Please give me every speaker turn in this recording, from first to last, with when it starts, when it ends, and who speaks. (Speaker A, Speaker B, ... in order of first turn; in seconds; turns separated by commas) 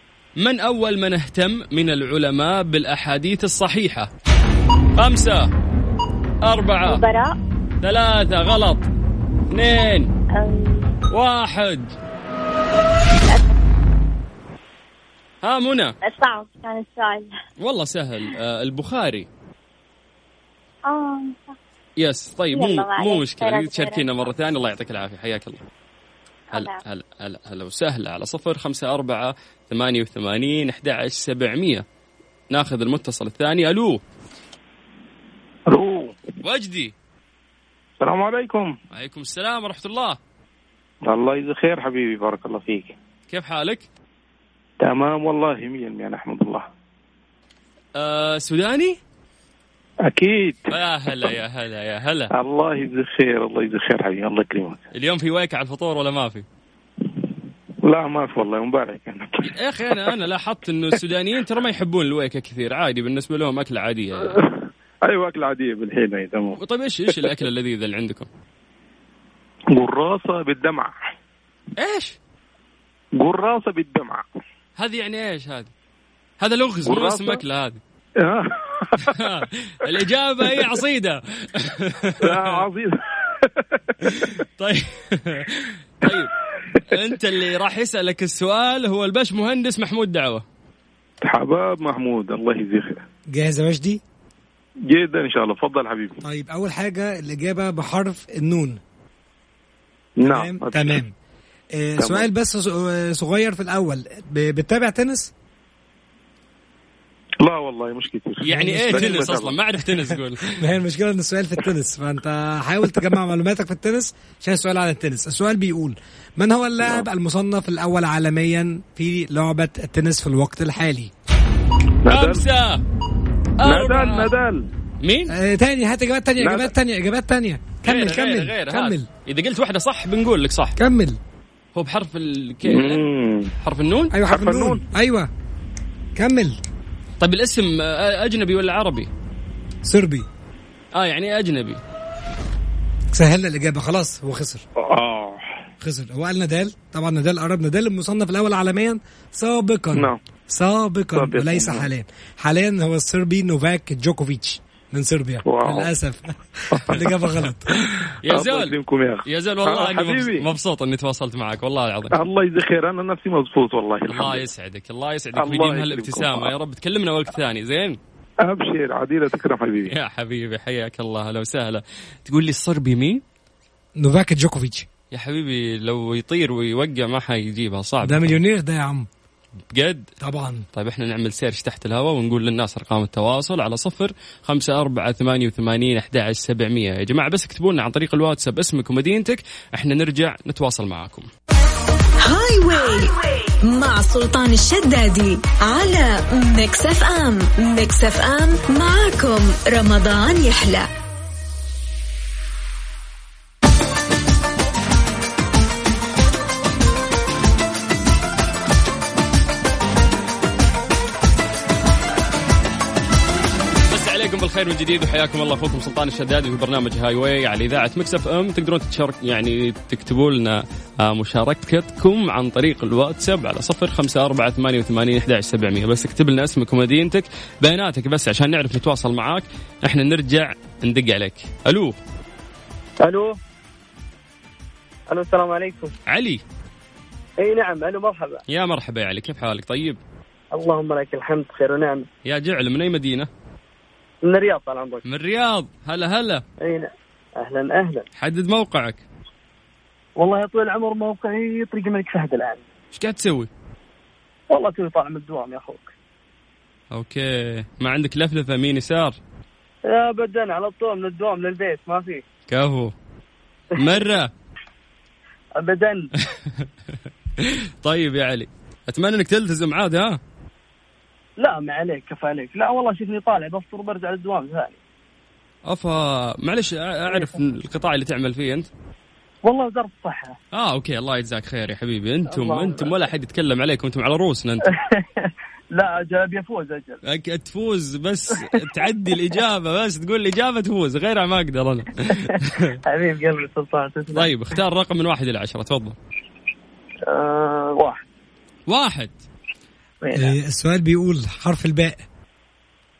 Speaker A: 0.4-4.1, Speaker A: 5.0-5.5, Speaker A: 6.4-7.0, Speaker B: 6.8-7.3, Speaker A: 7.8-8.9, Speaker A: 9.5-10.1, Speaker B: 10.3-10.9, Speaker A: 11.1-11.9, Speaker B: 13.3-13.5, Speaker A: 15.4-15.9, Speaker B: 16.0-17.3, Speaker A: 17.6-19.3, Speaker B: 20.9-21.6, Speaker A: 22.0-25.6, Speaker B: 22.5-24.1, Speaker B: 26.5-26.8, Speaker A: 26.5-31.8, Speaker A: 32.5-34.0, Speaker C: 35.7-36.1, Speaker A: 36.4-36.9, Speaker C: 38.0-38.7, Speaker A: 38.9-40.2, Speaker C: 41.0-42.9, Speaker A: 43.3-43.9, Speaker C: 44.8-46.6, Speaker A: 48.0-49.0, Speaker C: 50.1-50.7, Speaker A: 50.7-52.3, Speaker C: 52.3-54.8, Speaker A: 54.9-56.4, Speaker C: 57.9-60.1, Speaker A: 59.5-64.4, Speaker C: 64.3-66.6, Speaker A: 66.6-68.3, Speaker C: 69.7-70.9, Speaker A: 71.8-72.2, Speaker C: 73.2-74.2, Speaker A: 74.8-75.7, Speaker A: 76.4-77.8, Speaker C: 76.8-77.4, Speaker C: 78.2-79.3, Speaker A: 79.1-82.6, Speaker C: 82.2-84.3, Speaker A: 84.2-86.3, Speaker A: 86.9-90.4, Speaker C: 91.2-93.0, Speaker D: 93.3-94.0, Speaker C: 94.9-96.2, Speaker D: 96.2-98.8, Speaker C: 100.2-101.0, Speaker D: 100.2-101.1, Speaker D: 101.8-105.3, Speaker C: 102.0-102.2, Speaker C: 107.4-109.6, Speaker A: 108.4-110.5, Speaker D: 108.5-109.5, Speaker D: 110.5-121.1, Speaker C: 122.0-122.4, Speaker A: 122.1-122.8, Speaker A: 123.6-124.3, Speaker C: 123.6-124.7, Speaker A: 125.0-125.3, Speaker D: 125.3-129.1, Speaker C: 126.4-126.7, Speaker A: 127.8-130.8, Speaker D: 130.8-131.2, Speaker A: 131.7-133.0, Speaker C: 132.6-133.5, Speaker A: 133.6-134.1, Speaker D: 134.1-135.3, Speaker C: 134.3-134.8, Speaker D: 136.2-136.6, Speaker A: 137.2-139.1, Speaker D: 139.8-140.3, Speaker A: 140.9-141.8, Speaker D: 143.1-144.6, Speaker C: 144.8-145.6, Speaker D: 145.8-157.7, Speaker C: 151.1-151.9, Speaker C: 155.4-155.9, Speaker C: 156.7-157.1, Speaker A: 158.2-158.7, Speaker C: 158.3-160.5, Speaker A: 159.2-162.1, Speaker C: 162.1-164.5, Speaker A: 164.1-168.0, Speaker C: 165.4-166.5, Speaker C: 168.4-169.9, Speaker A: 169.9-173.2, Speaker D: 174.0-174.9, Speaker A: 175.1-178.4, Speaker D: 178.0-179.1, Speaker A: 179.7-180.1, Speaker D: 180.2-180.6, Speaker A: 180.7-191.3, Speaker E: 192.2-200.9, Speaker A: 213.9-231.9, Speaker F: 233.0-233.4, Speaker F: 235.1-235.9, Speaker A: 236.1-236.4, Speaker F: 237.4-238.4, Speaker A: 238.5-240.0, Speaker F: 240.5-242.1, Speaker A: 242.2-243.3, Speaker F: 244.2-245.0, Speaker A: 245.0-246.4, Speaker F: 246.6-248.1, Speaker A: 248.2-249.0, Speaker F: 250.2-252.6, Speaker A: 252.9-253.5, Speaker F: 254.5-255.9, Speaker A: 256.9-259.2, Speaker F: 259.9-262.2, Speaker A: 262.5-262.9, Speaker F: 263.7-264.1, Speaker A: 263.8-264.3, Speaker F: 265.6-266.1, Speaker A: 267.4-270.2, Speaker F: 271.4-274.8, Speaker A: 275.7-278.7, Speaker F: 279.4-280.4, Speaker A: 280.5-284.6, Speaker F: 282.3-283.0, Speaker F: 284.8-287.0, Speaker A: 287.0-292.7, Speaker F: 292.3-294.6, Speaker A: 294.1-295.9, Speaker F: 297.1-298.0, Speaker A: 298.7-299.1, Speaker F: 300.0-300.3, Speaker D: 300.1-302.0